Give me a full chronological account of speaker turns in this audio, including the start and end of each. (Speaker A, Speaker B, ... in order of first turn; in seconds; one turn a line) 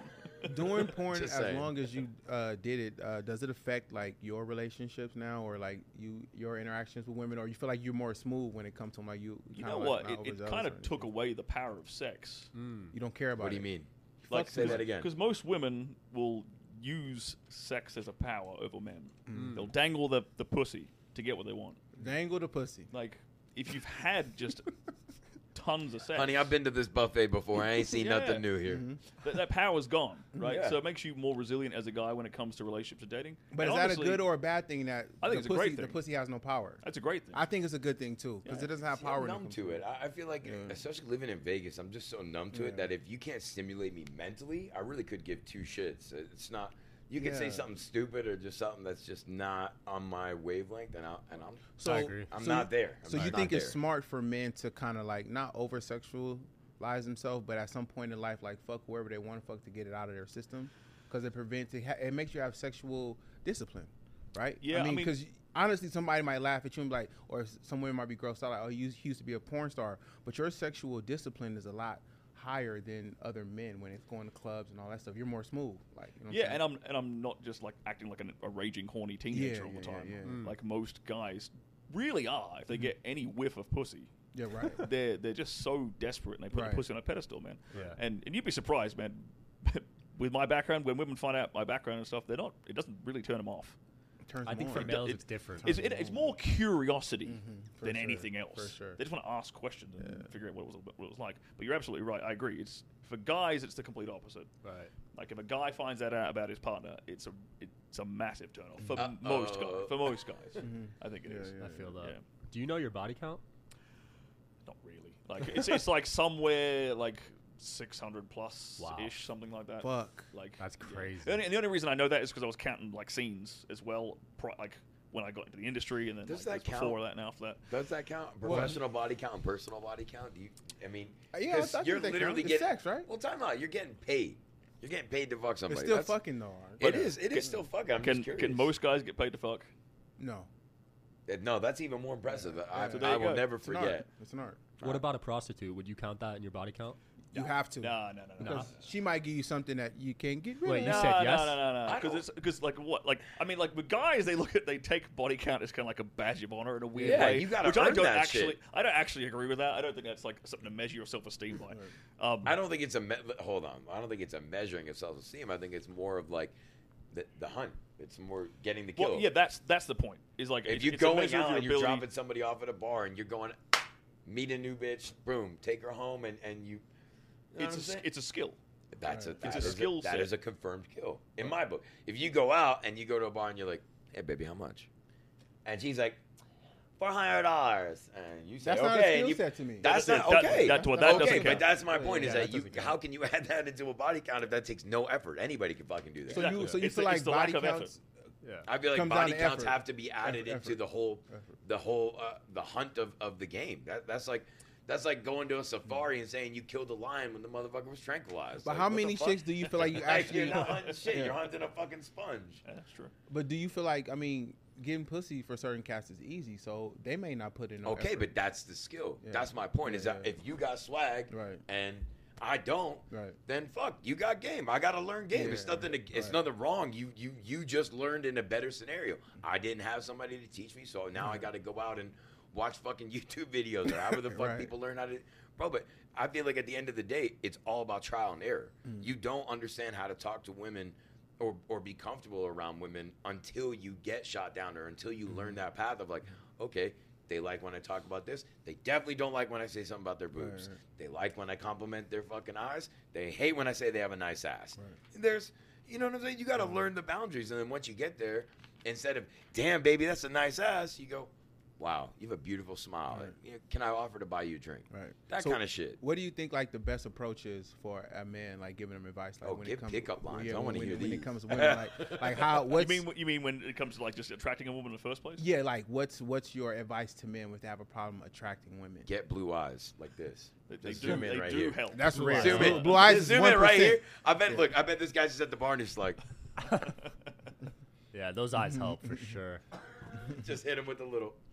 Speaker A: 0.4-11.1
Speaker B: 1.1-1.7
Speaker C: 9.5-12.5
Speaker D: 12.5-12.9
Speaker A: 12.9-13.7
Speaker B: 13.4-15.1
Speaker A: 14.3-14.9
Speaker C: 14.3-21.8
Speaker A: 19.3-19.6
Speaker D: 19.3-19.7
Speaker A: 22.0-22.9
Speaker C: 22.9-24.7
Speaker C: 25.5-26.5
Speaker B: 26.1-28.9
Speaker C: 27.7-28.5
Speaker A: 28.6-29.0
Speaker C: 29.2-34.3
Speaker B: 30.4-30.8
Speaker A: 33.5-39.8
Speaker C: 35.2-36.0
Speaker C: 36.8-37.4
Speaker B: 38.5-51.8
Speaker A: 40.4-40.8
Speaker A: 42.5-42.9
Speaker A: 47.2-47.7
Speaker A: 51.8-76.6
Speaker D: 51.8-52.3
Speaker B: 52.3-53.8
Speaker C: 64.6-65.1
Speaker C: 76.3-84.1
Speaker A: 79.3-80.5
Speaker D: 80.2-80.6
Speaker A: 84.3-84.9
Speaker C: 84.7-93.8
Speaker A: 86.5-86.8
Speaker D: 87.7-88.0
Speaker A: 94.3-96.4
Speaker D: 94.5-95.8
Speaker C: 94.7-104.5
Speaker A: 97.3-99.0
Speaker A: 100.0-100.3
Speaker D: 104.6-104.9
Speaker C: 105.1-112.2
Speaker B: 109.0-110.1
Speaker A: 110.6-112.0
Speaker D: 111.6-113.4
Speaker C: 114.7-127.6
Speaker D: 118.8-119.1
Speaker A: 119.8-120.3
Speaker D: 120.6-121.4
Speaker B: 126.3-127.0
Speaker B: 127.7-136.2
Speaker A: 128.4-128.8
Speaker A: 131.3-133.1
Speaker A: 135.7-137.2
Speaker B: 136.8-138.7
Speaker C: 136.8-139.7
Speaker A: 140.2-140.5
Speaker B: 141.3-144.1
Speaker A: 142.3-144.6
Speaker C: 142.9-143.5
Speaker B: 144.8-145.0
Speaker D: 144.8-147.0
Speaker A: 147.3-151.2
Speaker C: 147.3-148.8
Speaker D: 148.4-148.7
Speaker D: 150.6-151.6
Speaker C: 150.8-162.6
Speaker B: 151.9-152.2
Speaker D: 157.0-157.4
Speaker B: 157.0-158.6
Speaker B: 162.4-166.5
Speaker B: 167.1-169.3
Speaker C: 169.0-172.1
Speaker B: 170.7-176.8
Speaker B: 177.5-178.1
Speaker C: 177.6-178.6
Speaker B: 178.9-184.9
Speaker A: 179.1-179.8
Speaker C: 179.4-180.3
Speaker B: 185.7-186.2
Speaker B: 187.0-196.6
Speaker A: 188.6-192.6
Speaker C: 189.8-191.7
Speaker D: 192.1-193.0
Speaker A: 196.3-198.0
Speaker C: 196.3-197.9
Speaker B: 198.7-212.6
Speaker A: 198.9-201.5
Speaker A: 208.6-211.4
Speaker C: 209.8-211.0
Speaker C: 212.7-213.1
Speaker A: 213.3-218.3
Speaker B: 217.8-266.0
Speaker A: 219.2-220.3
Speaker A: 221.3-221.6
Speaker A: 223.1-223.4
Speaker A: 225.3-226.4
Speaker A: 231.2-231.4
Speaker A: 233.9-234.7
Speaker A: 250.3-250.8
Speaker A: 264.9-273.1
Speaker B: 269.4-272.4
Speaker C: 272.7-275.4
Speaker A: 275.4-279.1
Speaker B: 279.1-286.2
Speaker C: 280.7-283.2
Speaker A: 281.9-284.6
Speaker D: 282.1-282.9
Speaker C: 286.8-287.3
Speaker D: 288.1-289.6
Speaker A: 288.6-289.4
Speaker B: 290.1-291.4